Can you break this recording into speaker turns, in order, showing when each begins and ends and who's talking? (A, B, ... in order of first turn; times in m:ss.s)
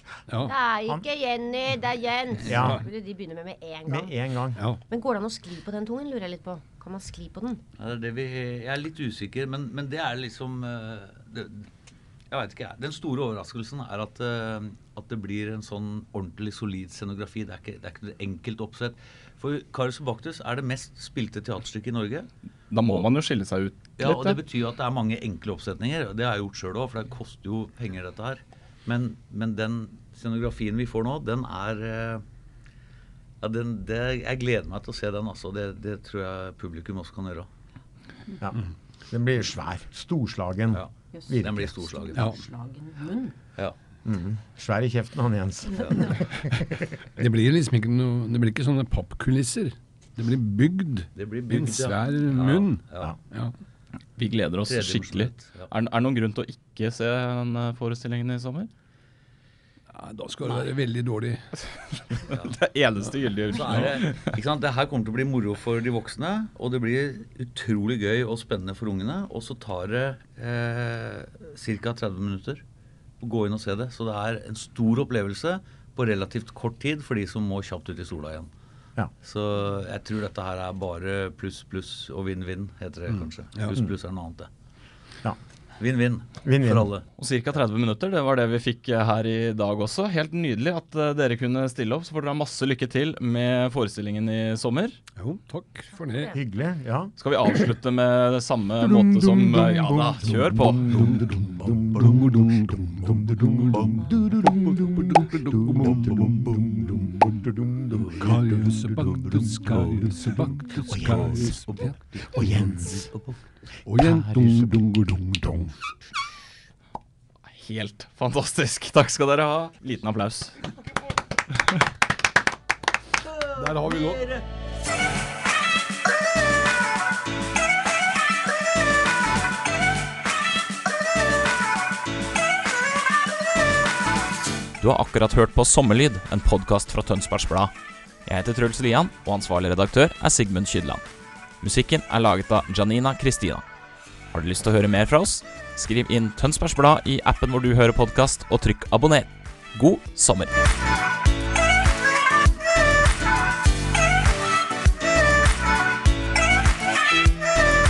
0:00.4-0:04.2 A
0:02.4-0:02.8 B
0:03.9-0:04.6 B
0:04.9-0:07.6 A
0:07.8-0:11.7 C
0:12.3-0:22.3 C
0:22.7-0:24.4 D
0:24.0-0:32.2 C
0:33.4-0:37.5 C
0:38.4-0:41.8 B
0:40.7-0:42.3 C
0:41.1-0:41.4 A
0:42.1-0:43.4 A
0:44.0-0:47.0 B
0:47.2-0:53.5 E
0:51.2-0:53.2 C
0:54.2-0:58.7 D
0:54.7-0:55.7 C
0:59.9-1:01.4 E
1:01.6-1:04.3 D
1:02.2-1:02.6 C
1:03.5-1:12.6 C
1:13.2-1:18.5 C
1:19.2-1:24.5 C
1:25.8-1:27.0 C
1:26.4-1:26.9 B
1:27.2-1:35.0 D
1:35.2-1:36.4 E
1:36.0-1:36.3 A
1:36.3-1:37.1 B
1:37.2-1:41.0 D
1:38.9-1:50.3 B
1:41.0-1:44.1 E
1:45.1-1:46.6 E
1:48.1-1:52.8 E
1:50.9-1:51.6 B
1:51.4-1:51.9 C
1:52.2-1:53.1 B
1:53.0-1:53.4 C
1:53.9-1:55.8 E
1:54.3-1:54.7 B
1:57.5-2:00.6 D
2:03.6-2:04.2 E
2:03.6-2:04.2 C
2:14.8-2:17.7 D
2:18.3-2:21.0 D
2:21.6-2:23.6 D
2:24.3-2:30.6 D